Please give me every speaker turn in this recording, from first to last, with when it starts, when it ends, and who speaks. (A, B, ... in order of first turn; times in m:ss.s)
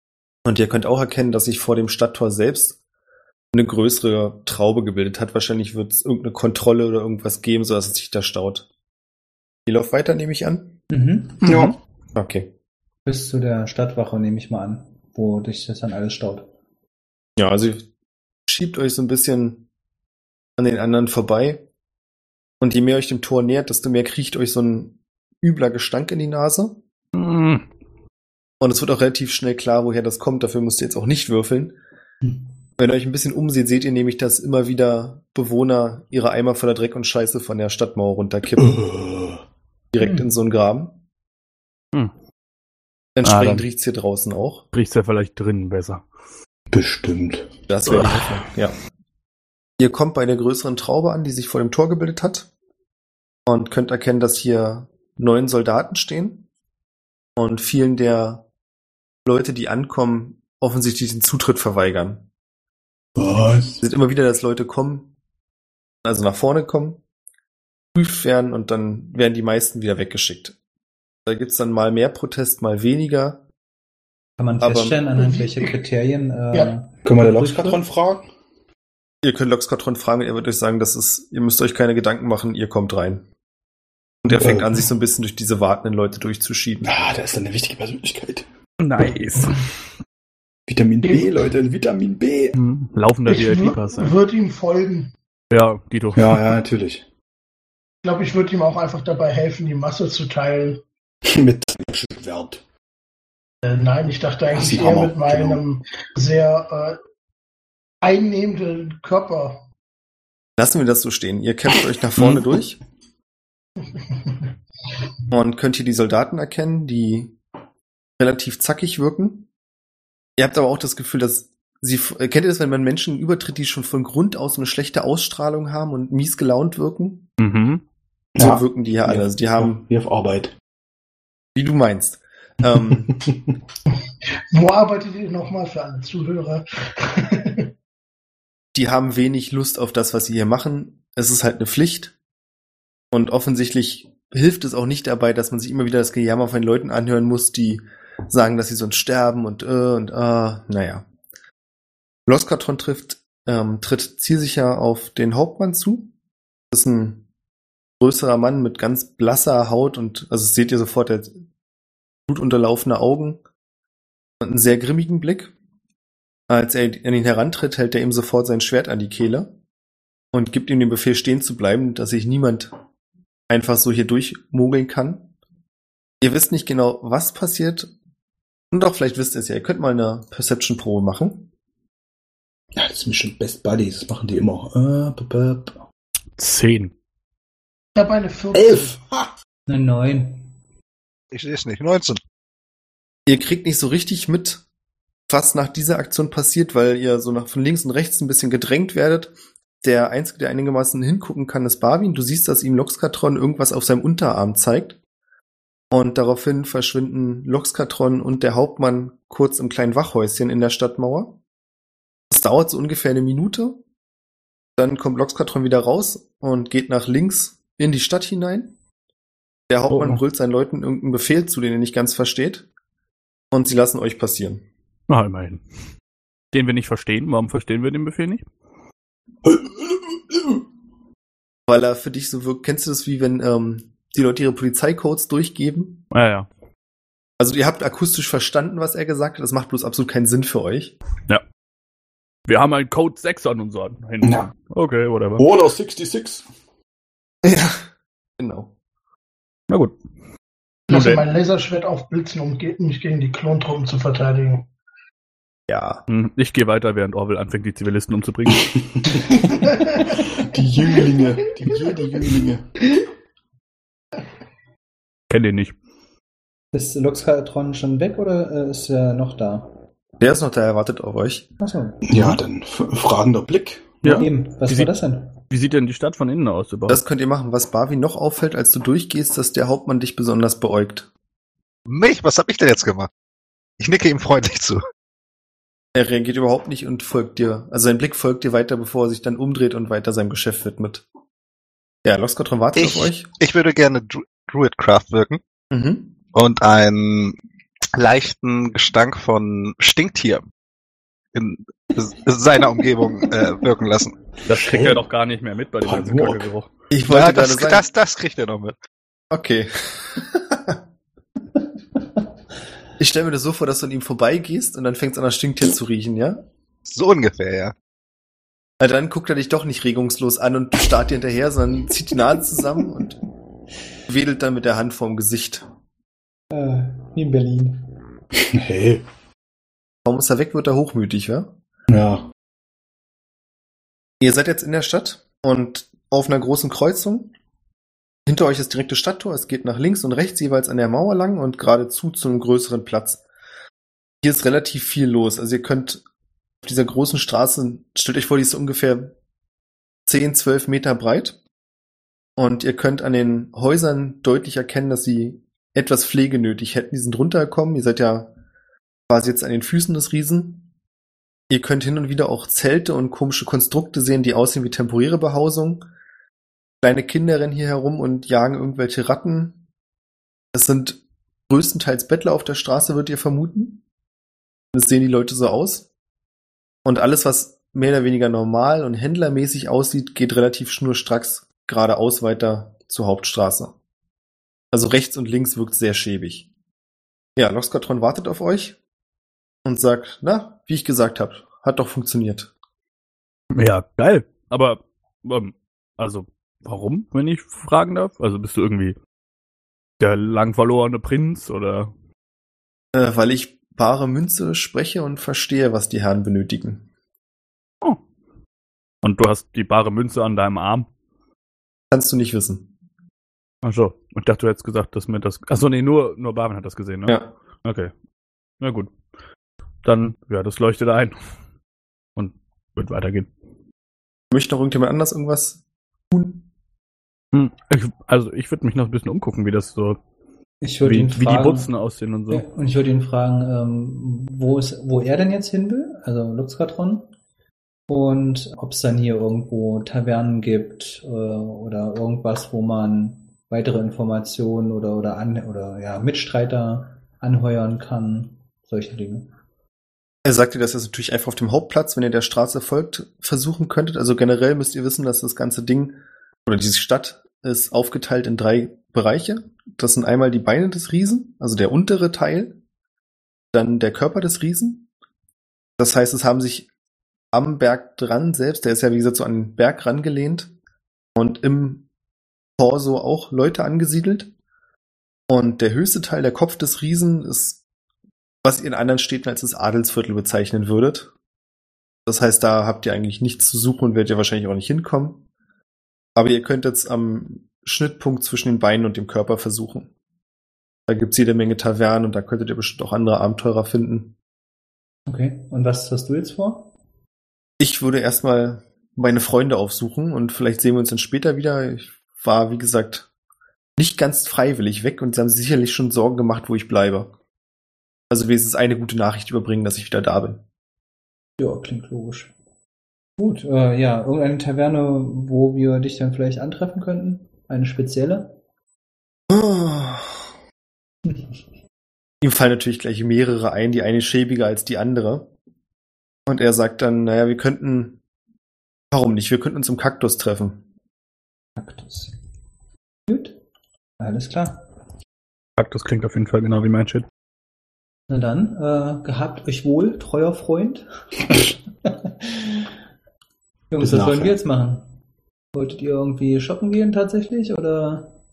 0:00.4-0:02.8 A
0:03.5-0:08.7 A
0:09.7-0:10.8 A
0:10.9-0:11.7 B
0:11.4-0:11.8 C
0:12.2-0:12.5 A
0:13.1-0:16.5 B
0:17.4-0:17.8 A
0:18.5-0:19.6 A
0:20.6-0:21.6 A
0:22.6-0:26.8 A
0:27.1-0:27.6 D
0:28.6-0:31.8 A
0:32.8-0:38.8 A
0:38.6-0:39.4 C
0:39.9-0:41.0 A
0:40.0-0:40.3 B
0:43.2-0:44.6 A
0:43.2-0:43.6 D
0:44.7-0:46.0 D
0:46.7-0:48.1 C
0:47.7-0:48.8 A
0:47.9-0:48.2 D
0:49.8-0:52.5 A
0:53.5-0:56.4 A
0:57.4-0:58.4 A
0:59.3-1:02.2 A
1:03.2-1:03.8 C
1:03.8-1:05.1 A
1:06.0-1:07.0 A
1:07.9-1:10.6 A
1:11.3-1:13.4 A
1:14.4-1:17.8 B
1:14.6-1:15.0 A
1:15.1-1:15.8 E
1:17.0-1:18.3 C
1:19.2-1:23.2 A
1:24.2-1:26.9 A
1:24.3-1:24.9 C
1:26.8-1:28.5 C
1:28.8-1:29.7 D
1:30.7-1:32.6 C
1:32.6-1:34.2 D
1:33.3-1:35.1 E
1:35.5-1:36.4 D
1:36.2-1:37.0 C
1:38.0-1:40.8 E
1:41.3-1:42.6 C
1:43.6-1:47.0 E
1:44.5-1:45.6 C
1:48.0-1:49.6 E
1:50.6-1:52.8 A
1:53.8-1:54.4 E
1:55.3-1:57.4 A
1:58.2-1:59.5 A
2:00.4-2:07.3 A
2:07.4-2:07.8 D
2:08.4-2:10.5 C
2:08.4-2:09.8 A
2:11.6-2:13.2 A
2:12.7-2:13.5 C
2:14.5-2:17.7 E
2:18.8-2:22.1 A
2:23.1-2:31.0 A
2:32.3-2:36.1 A
2:36.7-2:37.2 A
2:38.0-2:41.3 A
2:42.3-2:43.4 A
2:44.4-2:45.5 A
2:46.5-2:49.5 A
2:50.3-2:52.7 A
2:53.5-2:55.3 A
2:56.2-2:57.9 A
2:58.7-3:01.5 A
3:02.8-3:05.8 C
3:06.4-3:06.9 D
3:08.0-3:09.0 E
3:08.5-3:09.3 C
3:09.7-3:10.5 B
3:11.3-3:12.2 F
3:13.3-3:14.6 A
3:15.3-3:25.0 A
3:25.9-3:31.4 A
3:32.3-3:33.8 A
3:34.8-3:38.7 A
3:39.7-3:42.7 A
3:39.9-3:40.2 D
3:43.5-3:44.6 A
3:45.1-3:45.6 D
3:46.5-3:48.4 D
3:49.4-3:50.6 C
3:51.7-3:56.0 A
3:56.1-3:56.5 D
3:57.4-4:01.0 A
4:02.5-4:05.5 D
4:04.2-4:04.5 C
4:05.4-4:06.4 C
4:07.4-4:07.8 A
4:08.4-4:08.7 A
4:09.7-4:10.0 D
4:10.9-4:11.2 D
4:10.9-4:14.7 E
4:15.7-4:16.0 A
4:16.1-4:18.7 D
4:18.7-4:22.7 C
4:19.5-4:20.1 E
4:25.3-4:25.8 D
4:26.7-4:29.8 B
4:30.2-4:31.5 A
4:31.6-4:32.4 B
4:32.0-4:34.0 C
4:34.0-4:34.9 D
4:34.0-4:35.4 B
4:35.5-4:37.0 D
4:36.9-4:41.1 A
4:41.9-4:43.1 F
4:43.8-4:44.8 F
4:46.0-4:51.0 A
4:52.0-4:53.3 A
4:52.8-4:55.4 F
4:55.7-4:56.2 A
4:56.3-4:57.4 F
4:58.0-5:00.4 F
5:01.3-5:04.2 F
5:04.4-5:06.7 D
5:04.5-5:05.0 C
5:05.8-5:06.5 C
5:06.9-5:07.8 A
5:07.1-5:08.8 F
5:09.3-5:10.8 A
5:13.0-5:16.4 A
5:16.9-5:17.7 F
5:18.8-5:23.2 A
5:24.1-5:25.7 A
5:26.5-5:27.9 B
5:28.4-5:29.0 C
5:30.0-5:31.5 A
5:31.9-5:32.3 C
5:34.2-5:37.3 A
5:38.3-5:43.2 A
5:44.2-5:46.0 A
5:46.6-5:49.1 A
5:50.1-5:51.4 A
5:52.4-5:58.3 A
5:59.1-6:00.7 A
6:01.5-6:05.8 A
6:06.8-6:09.6 A
6:10.5-6:13.8 A
6:14.7-6:15.9 A
6:16.8-6:23.7 A
6:24.7-6:26.5 A
6:27.4-6:28.8 A
6:29.6-6:32.5 A
6:33.5-6:39.0 D
6:40.0-6:41.9 D
6:42.9-6:46.8 A
6:49.0-6:50.9 D
6:51.9-6:52.7 A
6:53.6-6:57.9 D
6:58.6-6:58.9 D
6:59.8-7:01.2 D
7:02.2-7:03.3 D
7:04.3-7:06.4 A
7:07.3-7:10.0 D
7:10.6-7:11.7 B
7:10.8-7:12.4 D
7:12.3-7:17.1 B
7:17.9-7:29.3 B
7:30.2-7:42.6 A
7:43.5-7:44.9 A
7:45.8-7:46.7 A
7:47.3-7:50.5 A
7:51.2-7:51.8 A
7:52.6-7:54.3 A
7:55.3-7:57.6 A
7:58.4-8:01.1 A
8:02.1-8:05.2 A
8:06.2-8:09.9 A
8:10.9-8:14.2 A
8:15.1-8:16.7 B
8:17.6-8:23.1 A
8:23.8-8:27.1 A
8:28.1-8:30.4 A
8:31.4-8:32.3 B
8:33.2-8:38.4 B
8:39.3-8:40.2 A
8:42.2-8:45.3 A
8:46.3-8:48.0 A
8:48.9-8:50.6 A
8:51.6-8:52.2 B
8:53.1-8:53.4 B
8:54.0-8:54.7 B
8:55.6-8:57.1 D
8:58.1-9:02.7 B
9:03.7-9:04.9 B
9:03.8-9:04.4 C
9:05.5-9:08.2 B